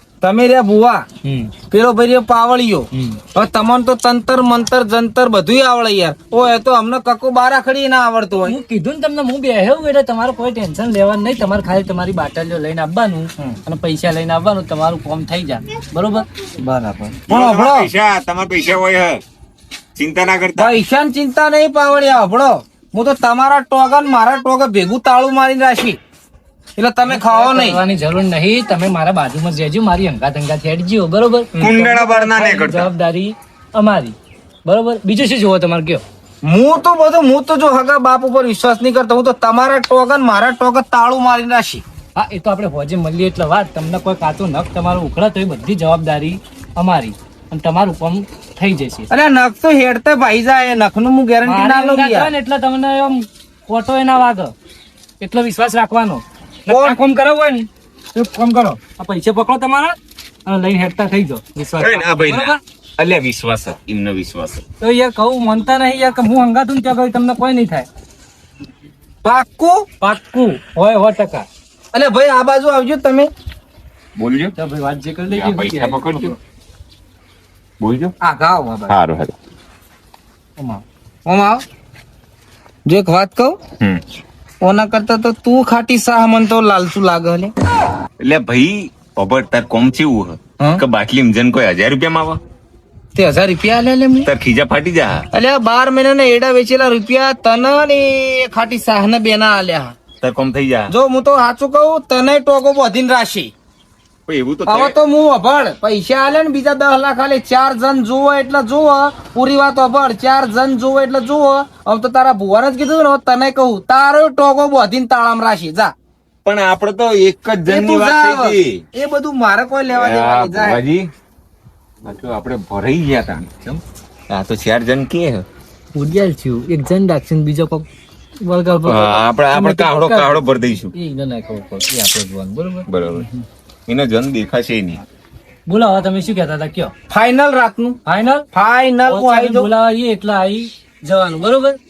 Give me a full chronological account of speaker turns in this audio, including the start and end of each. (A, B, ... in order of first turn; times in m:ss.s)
0:00.2-0:01.1 A
0:01.2-0:01.5 B
0:01.7-0:08.6 A
0:02.9-0:03.2 B
0:08.5-0:16.3 B
0:16.6-0:17.9 A
0:17.3-0:19.2 C
0:20.0-0:20.7 C
0:20.6-0:26.0 A
0:26.8-0:27.8 A
0:27.1-0:36.0 B
0:31.6-0:32.9 C
0:36.4-0:41.8 A
0:42.2-0:49.1 B
0:49.1-0:52.3 A
0:51.4-0:54.5 B
0:55.2-1:02.6 B
0:56.7-0:57.0 A
1:01.8-1:04.6 C
1:04.8-1:07.9 B
1:09.2-1:09.9 A
1:10.0-1:11.5 B
1:11.9-1:13.3 A
1:14.2-1:14.5 C
1:14.6-1:16.4 B
1:15.3-1:16.3 C
1:17.8-1:18.1 C
1:18.2-1:19.0 A
1:18.9-1:19.4 C
1:21.3-1:21.6 A
1:22.9-1:23.6 A
1:24.6-1:27.5 A
1:28.2-1:32.4 C
1:30.6-1:30.8 A
1:33.2-1:34.3 A
1:34.2-1:35.3 C
1:35.3-1:40.0 A
1:40.2-1:40.9 C
1:40.9-1:43.5 A
1:44.3-1:45.0 C
1:44.7-1:55.9 A
1:56.4-1:58.8 C
1:57.7-2:00.8 A
2:00.0-2:01.1 C
2:02.0-2:03.5 C
2:04.3-2:05.5 C
2:06.0-2:07.9 B
2:08.4-2:13.4 B
2:08.8-2:10.9 C
2:12.9-2:13.3 C
2:13.9-2:15.0 C
2:15.7-2:16.9 B
2:17.1-2:18.0 A
2:18.1-2:18.4 B
2:18.5-2:19.7 A
2:19.1-2:21.8 B